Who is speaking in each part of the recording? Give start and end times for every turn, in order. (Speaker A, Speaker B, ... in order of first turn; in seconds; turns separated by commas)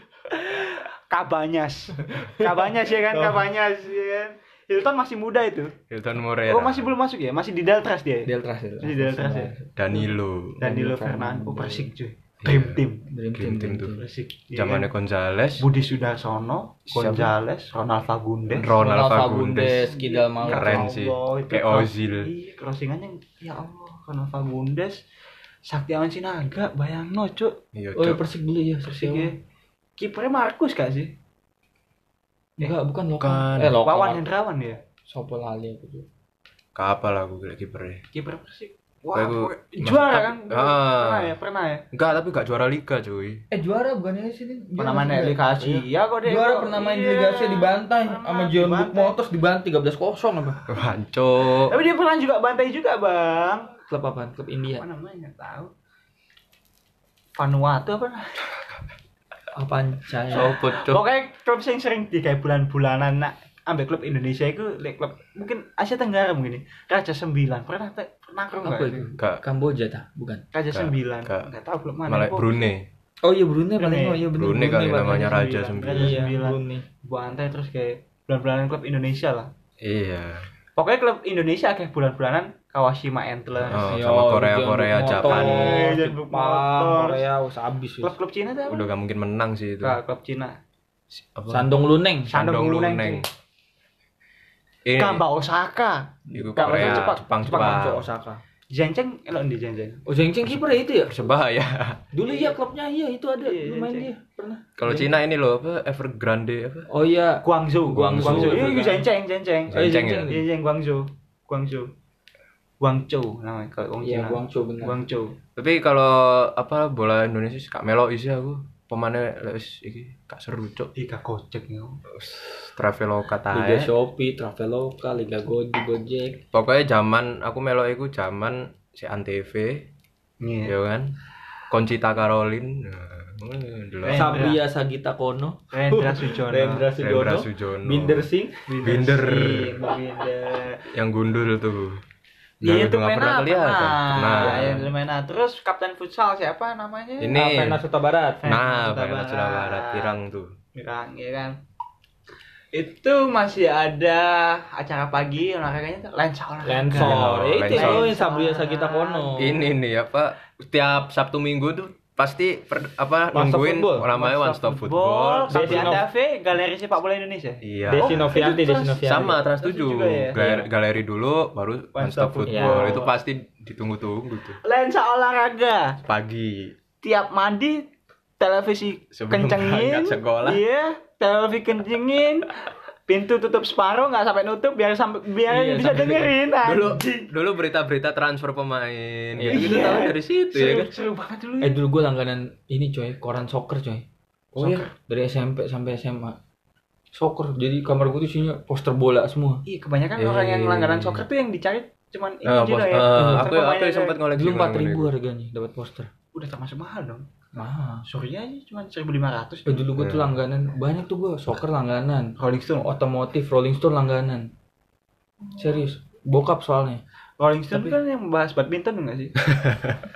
Speaker A: 0.3-5.7, Speaker B: 2.1-3.4, Speaker C: 5.9-6.9, Speaker A: 6.5-8.3, Speaker B: 8.3-9.9, Speaker A: 8.8-9.5, Speaker C: 9.8-10.6, Speaker A: 10.6-13.1, Speaker B: 10.6-11.9, Speaker C: 12.4-12.8, Speaker B: 13.1-14.0, Speaker C: 13.3-14.0, Speaker A: 14.0-14.9, Speaker C: 14.5-15.7, Speaker A: 15.6-18.7, Speaker C: 16.9-17.3, Speaker C: 18.5-19.9, Speaker B: 18.8-20.9, Speaker A: 19.9-25.0, Speaker C: 20.4-22.3, Speaker A: 25.7-27.6, Speaker C: 27.7-28.2, Speaker B: 28.0-29.3, Speaker A: 28.9-29.4, Speaker A: 30.0-31.1, Speaker B: 32.6-34.2, Speaker C: 33.2-33.8, Speaker A: 33.8-34.8, Speaker B: 35.1-36.1, Speaker C: 36.8-38.0, Speaker A: 38.1-41.9, Speaker C: 39.1-41.4, Speaker C: 41.9-43.4, Speaker B: 43.5-50.6, Speaker A: 44.8-49.2, Speaker C: 50.7-51.8, Speaker A: 51.7-53.8, Speaker B: 53.9-54.9, Speaker A: 54.8-55.7, Speaker A: 57.4-58.3, Speaker B: 59.6-60.5, Speaker C: 60.3-61.0, Speaker A: 60.3-69.1, Speaker B: 68.6-70.4, Speaker A: 70.5-72.5, Speaker C: 70.7-71.5, Speaker C: 72.1-72.9, Speaker B: 73.2-76.8, Speaker A: 73.8-74.3, Speaker C: 74.3-76.2, Speaker A: 75.3-79.5, Speaker C: 79.8-80.5, Speaker A: 80.8-84.0, Speaker C: 83.6-85.9, Speaker B: 83.9-88.1, Speaker A: 85.1-87.3, Speaker A: 88.0-88.9, Speaker C: 88.7-90.0, Speaker A: 89.8-90.6, Speaker C: 91.1-91.7, Speaker B: 91.5-92.3, Speaker C: 92.3-93.3, Speaker A: 92.3-93.2, Speaker C: 94.9-95.2, Speaker A: 95.0-97.3, Speaker B: 96.3-98.4, Speaker C: 96.3-98.1, Speaker A: 98.7-100.0, Speaker B: 100.1-101.2, Speaker C: 100.5-102.0, Speaker B: 102.1-105.1, Speaker A: 102.3-102.6, Speaker A: 103.4-104.1, Speaker C: 104.8-106.9, Speaker B: 106.9-109.0, Speaker A: 107.4-111.9, Speaker C: 107.9-108.8, Speaker C: 109.7-110.4, Speaker B: 109.7-110.4, Speaker A: 112.8-115.3, Speaker B: 114.0-115.0, Speaker C: 115.6-120.9, Speaker A: 121.0-122.0, Speaker C: 122.1-123.9, Speaker B: 123.5-126.4, Speaker C: 126.5-129.9, Speaker A: 130.4-130.8, Speaker C: 130.7-131.1, Speaker C: 131.7-134.4, Speaker A: 134.0-134.6, Speaker B: 134.1-138.7, Speaker A: 135.7-136.9, Speaker C: 136.9-138.3, Speaker A: 138.7-140.8, Speaker C: 138.8-139.8, Speaker C: 140.9-142.0, Speaker C: 142.6-144.9, Speaker A: 142.6-147.3, Speaker B: 144.4-144.8, Speaker C: 147.2-147.8, Speaker B: 147.3-148.5, Speaker A: 148.4-150.2, Speaker C: 148.4-150.6, Speaker A: 150.8-151.5, Speaker A: 152.7-157.2, Speaker B: 156.7-159.6, Speaker C: 156.9-158.1, Speaker A: 157.7-159.6, Speaker C: 159.4-166.0, Speaker B: 163.3-164.1, Speaker A: 164.1-170.6, Speaker B: 165.5-166.1, Speaker C: 167.6-168.5, Speaker B: 167.9-169.4, Speaker C: 169.0-174.6, Speaker A: 171.9-173.1, Speaker B: 172.5-173.1, Speaker A: 174.6-176.0, Speaker C: 176.1-176.8, Speaker A: 177.0-177.9, Speaker A: 178.4-182.5, Speaker C: 179.1-180.6, Speaker A: 183.1-187.3, Speaker B: 185.5-186.3, Speaker C: 186.6-190.9, Speaker B: 189.4-189.9, Speaker A: 189.5-191.8, Speaker B: 191.6-194.0, Speaker C: 194.6-194.9, Speaker A: 194.6-194.9, Speaker B: 194.9-196.4, Speaker B: 197.1-199.6, Speaker A: 199.7-204.2, Speaker C: 200.2-201.3, Speaker C: 202.4-205.1, Speaker B: 203.2-203.5, Speaker B: 204.3-206.1, Speaker A: 206.3-207.3, Speaker B: 207.6-208.1, Speaker A: 208.1-209.8, Speaker B: 209.7-214.5, Speaker C: 210.0-210.3, Speaker A: 212.4-212.9, Speaker B: 215.6-217.0, Speaker A: 217.4-219.4, Speaker B: 217.7-218.0, Speaker C: 219.5-220.0